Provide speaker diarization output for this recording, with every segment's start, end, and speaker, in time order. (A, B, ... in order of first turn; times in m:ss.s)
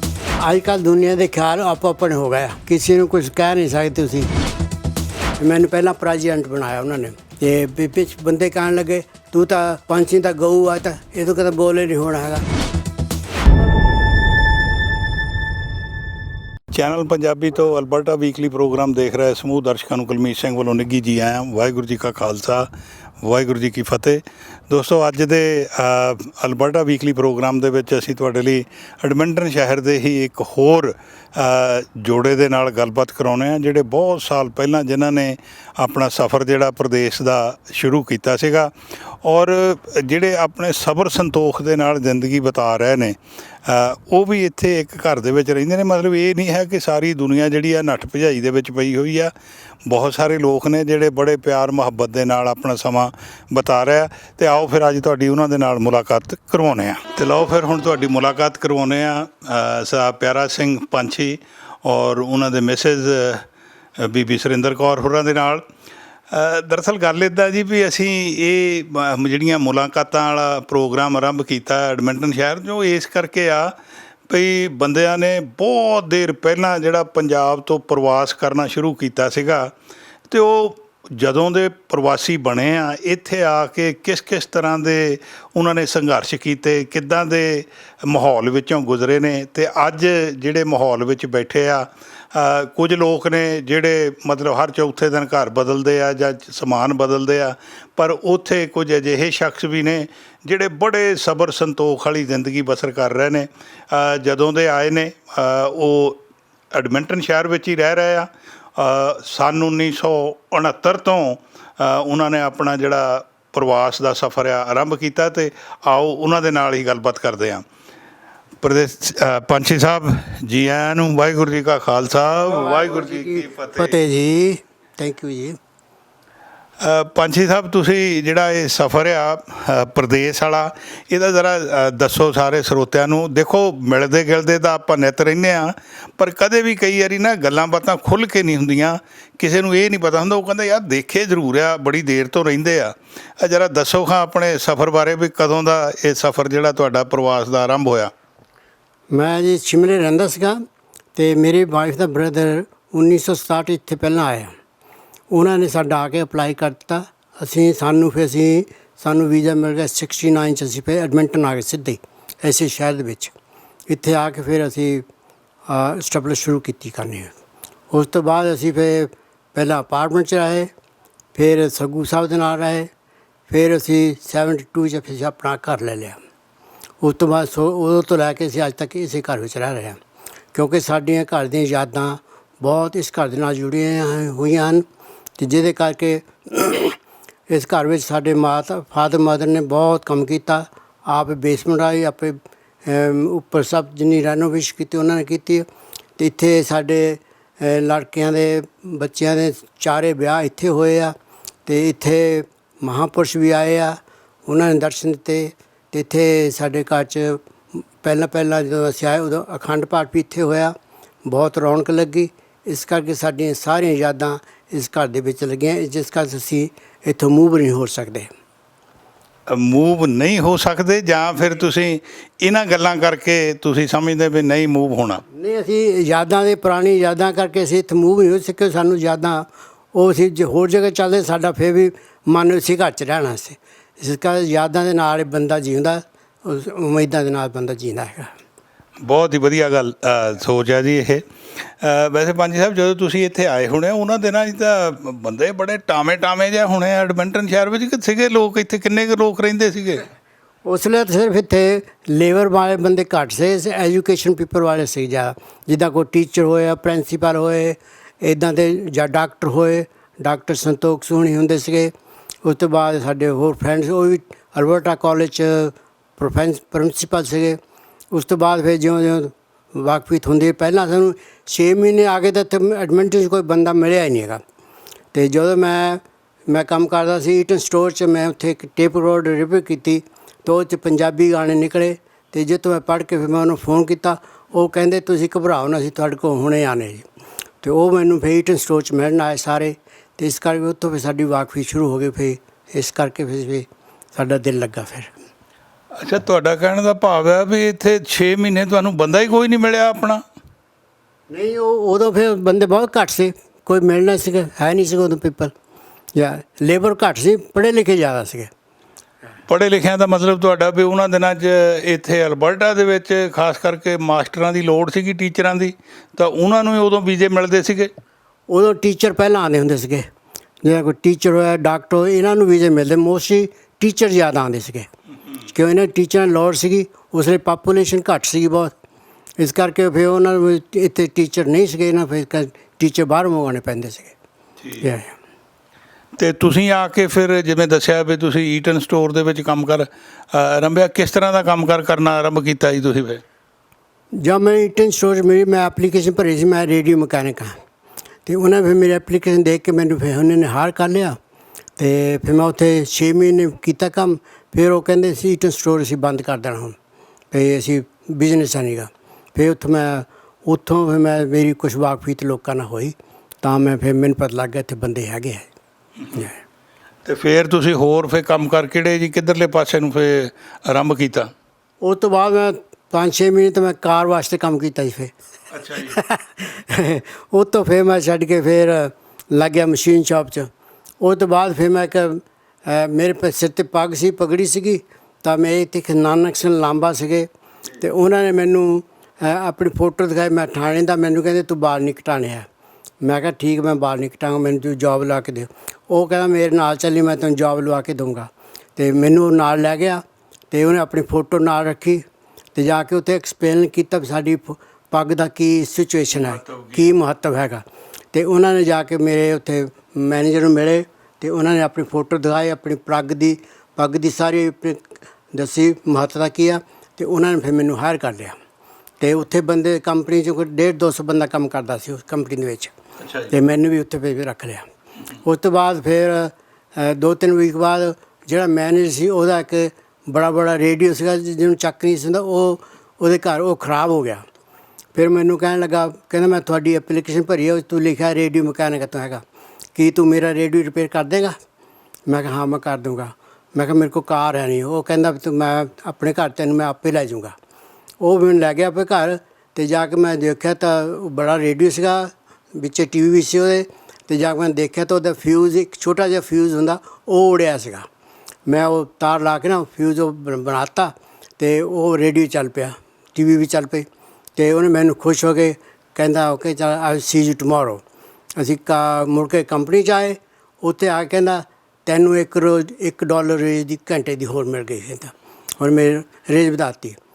0:00.4-0:04.3 A
0:05.4-0:12.4 A
0:16.7-0:22.7 B
0:23.2-0:38.7 B
0:39.2-0:49.3 B
0:49.9-1:03.5 B
1:04.0-1:05.7 B
1:06.3-1:13.8 B
1:14.3-1:19.7 B
1:20.3-1:57.6 B
1:58.6-2:04.0 B
2:02.5-2:05.6 A
2:06.8-2:28.1 B
2:29.1-2:30.6 A
2:31.2-2:34.5 A
2:35.3-2:43.3 A
2:43.9-2:45.1 A
2:45.7-2:47.3 A
2:47.9-2:50.7 A
2:51.4-2:52.9 A
2:53.5-2:56.2 A
2:57.0-3:00.0 A
3:00.5-3:04.8 A
3:05.4-3:07.0 A
3:07.5-3:15.7 A
3:16.2-3:21.2 A
3:21.7-3:38.3 A
3:39.5-3:45.2 B
3:45.3-3:58.3 A
3:59.0-4:10.1 B
4:10.6-4:21.9 A
4:22.4-4:27.6 A
4:28.1-4:34.4 A
4:35.1-4:47.1 A
4:47.6-4:55.1 A
4:56.0-5:00.2 B
5:01.3-5:05.5 A
5:06.2-5:08.5 A
5:09.5-5:17.9 B
5:18.5-5:20.1 A
5:20.6-5:24.9 A
5:25.5-5:28.7 A
5:29.4-5:34.1 A
5:34.8-5:35.1 A
5:36.2-5:43.2 B
5:44.1-5:47.6 A
5:48.3-5:51.2 A
5:51.8-5:56.8 A
5:57.3-6:05.5 A
6:06.1-6:06.4 A
6:07.0-6:11.3 B
6:11.8-6:15.1 A
6:15.5-6:16.0 B
6:15.8-6:20.5 A
6:21.0-6:27.3 A
6:27.8-6:32.5 A
6:33.0-6:42.0 A
6:42.6-6:58.4 A
6:46.2-6:46.9 B
6:59.0-7:02.7 A
7:03.0-7:03.3 B
7:03.3-7:04.7 A
7:05.2-7:14.2 A
7:15.0-7:19.2 A
7:19.8-7:21.4 A
7:22.1-7:27.4 A
7:28.0-7:37.9 A
7:38.5-7:47.8 A
7:48.4-7:57.0 A